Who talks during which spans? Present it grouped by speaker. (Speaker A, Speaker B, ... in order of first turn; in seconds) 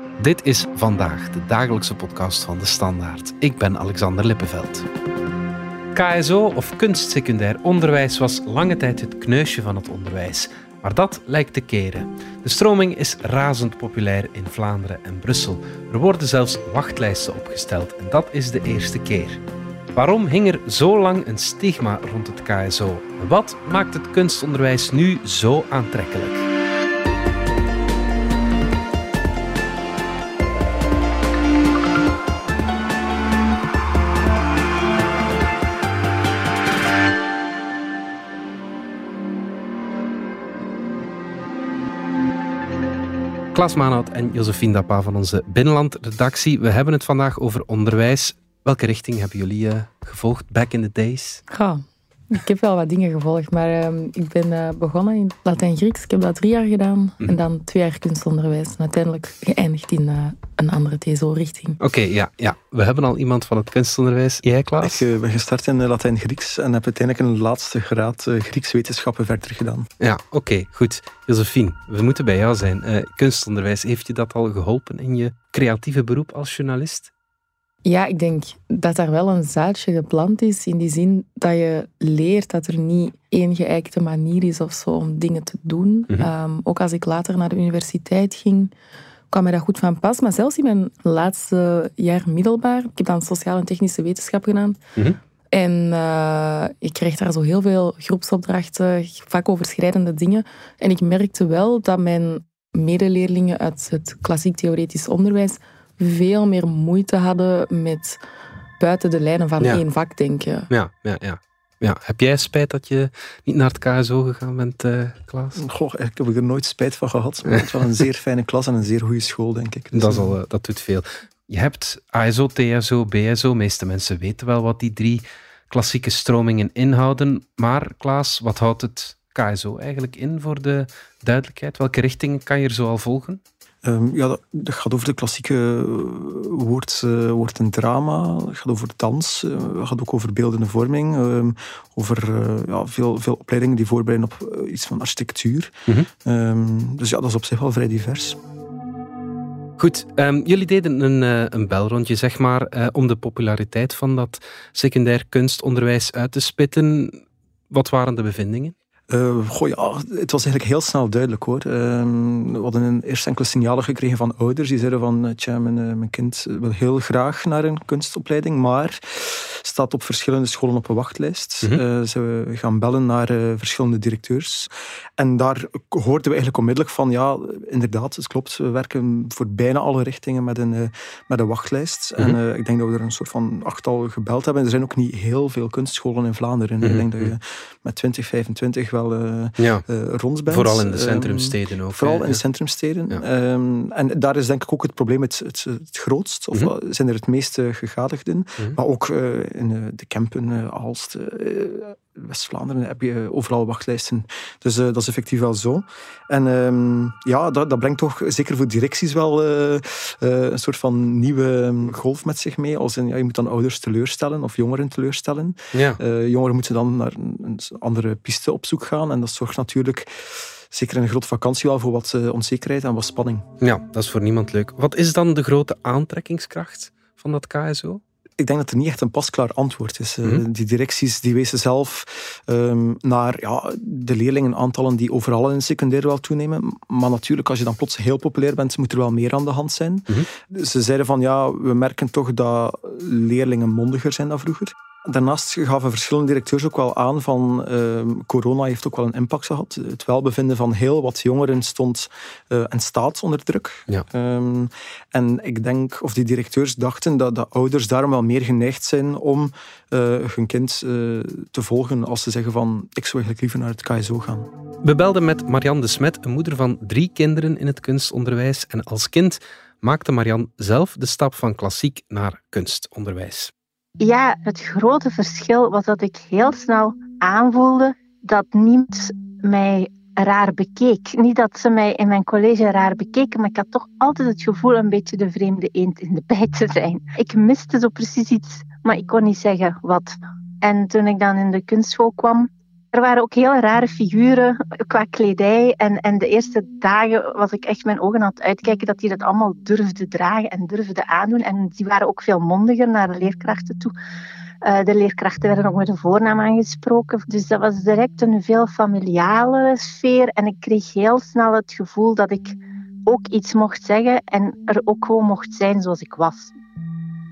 Speaker A: 0.2-4.8, 5.9-19.4, 19.9-26.5, 43.5-51.4, 61.8-65.0, 70.0-77.1, 110.7-115.6, 119.9-133.4, 149.8-158.8, 186.8-187.3, 189.6-189.8, 190.5-192.4, 215.7-216.0, 223.6-228.0, 264.8-273.5
Speaker B: 51.5-61.8, 77.8-88.7, 89.3-94.8, 95.5-108.2, 108.8-110.7
Speaker C: 64.8-69.9, 115.5-120.3, 133.8-145.7, 146.2-148.4, 159.1-220.1, 220.7-223.5, 228.4-264.5
Speaker D: 274.0-303.9, 304.6-316.5